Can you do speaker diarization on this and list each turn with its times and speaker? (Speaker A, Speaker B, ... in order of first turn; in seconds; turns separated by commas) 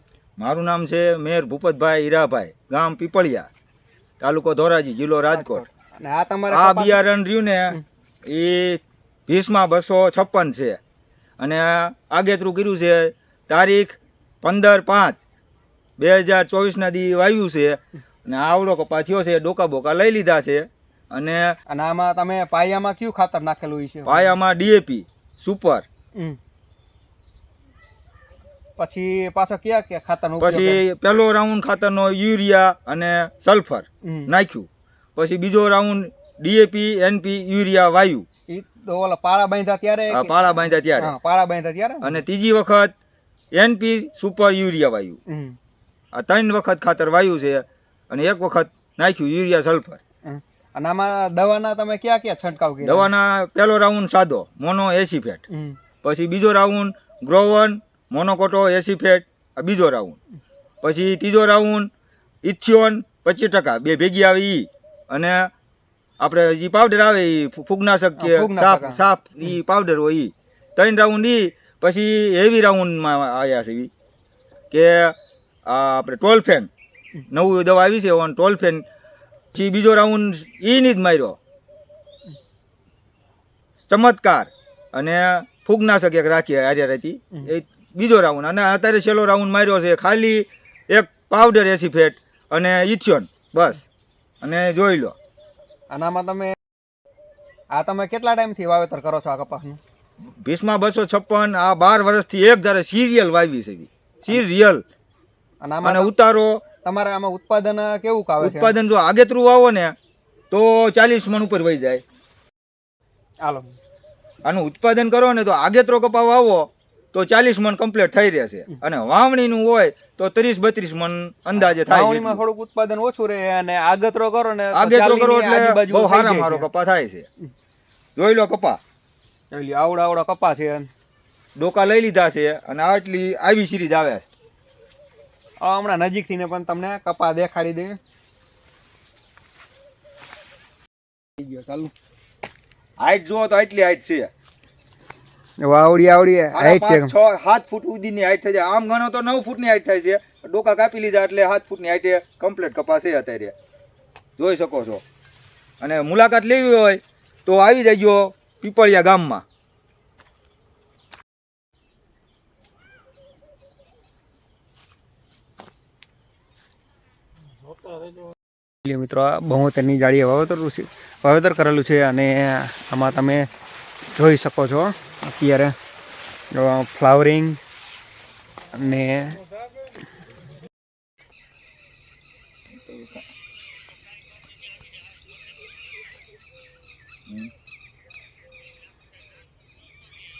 Speaker A: 0.4-3.5, Speaker A: 4.2-5.6, Speaker B: 5.3-7.0, Speaker A: 6.5-10.8, Speaker A: 11.4-15.2, Speaker A: 16.0-21.5, Speaker B: 21.7-24.3, Speaker A: 24.1-25.8, Speaker B: 28.8-30.8, Speaker A: 30.4-38.2, Speaker B: 34.0-34.3, Speaker B: 38.5-42.2, Speaker A: 40.1-41.1, Speaker A: 42.0-42.9, Speaker A: 43.5-45.2, Speaker B: 45.3-45.5, Speaker A: 46.1-50.0, Speaker B: 50.2-53.1, Speaker A: 52.8-55.4, Speaker B: 55.5-55.8, Speaker A: 56.0-60.2, Speaker A: 60.8-61.9, Speaker A: 62.4-65.5, Speaker A: 66.2-73.9, Speaker B: 68.2-69.0, Speaker A: 74.7-75.1, Speaker A: 75.7-76.7, Speaker A: 77.3-78.8, Speaker A: 79.5-81.4, Speaker A: 83.9-93.8, Speaker A: 94.4-95.2, Speaker B: 95.9-96.5, Speaker B: 97.7-99.8, Speaker A: 100.4-104.8, Speaker B: 105.6-106.1, Speaker A: 105.8-106.6, Speaker B: 106.8-108.7, Speaker A: 108.4-109.9, Speaker A: 110.5-112.0, Speaker B: 113.4-113.8, Speaker A: 114.4-122.4, Speaker B: 121.6-126.7, Speaker A: 124.7-127.2, Speaker A: 128.2-128.8, Speaker B: 129.5-130.9, Speaker A: 131.6-134.2, Speaker B: 135.6-138.0, Speaker B: 141.4-141.9, Speaker A: 143.0-144.3, Speaker B: 145.6-147.1, Speaker A: 146.5-153.5, Speaker A: 154.4-155.0, Speaker A: 155.8-159.4, Speaker B: 168.8-173.5, Speaker B: 174.1-175.7, Speaker B: 176.5-177.6, Speaker B: 178.7-179.4, Speaker A: 182.7-183.2